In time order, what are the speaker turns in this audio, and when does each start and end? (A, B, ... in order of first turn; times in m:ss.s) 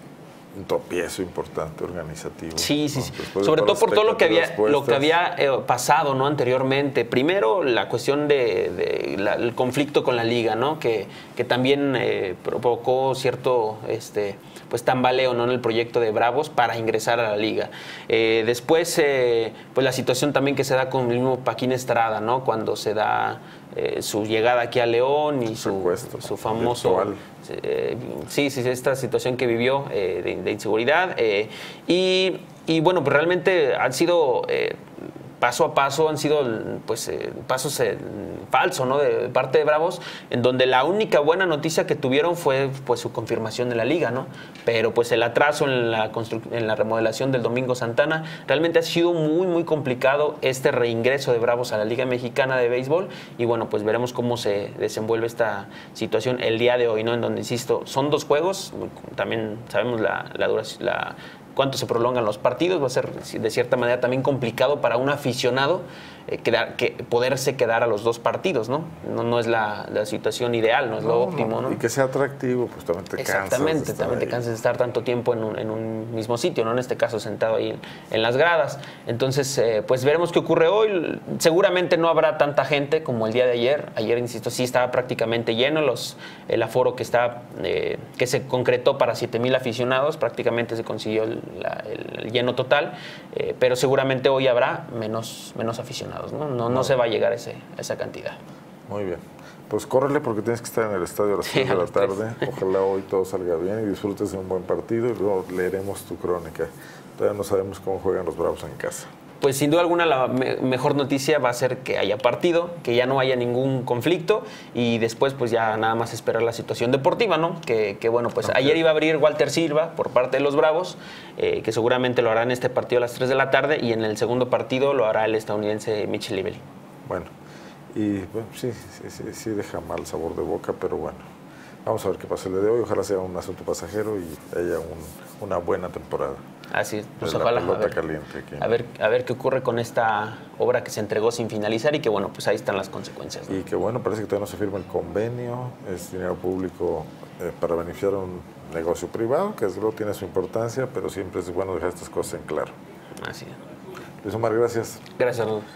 0:00.5-0:05.1 A
0:02.6-0:34.8 B
0:25.6-0:27.2 A
0:35.4-1:11.8 B
1:11.0-1:14.4 A
1:13.2-1:38.4 B
1:36.7-1:36.9 A
1:38.9-1:49.1 A
1:41.4-1:42.5 B
1:49.4-2:06.6 B
1:58.4-1:58.8 A
2:07.0-2:07.3 A
2:07.9-2:11.2 A
2:11.8-2:16.4 A
2:16.7-2:18.0 B
2:17.2-2:18.8 A
2:18.6-2:23.6 B
2:23.5-2:32.7 A
2:33.2-2:33.6 B
2:34.2-2:35.0 A
2:35.2-2:35.6 B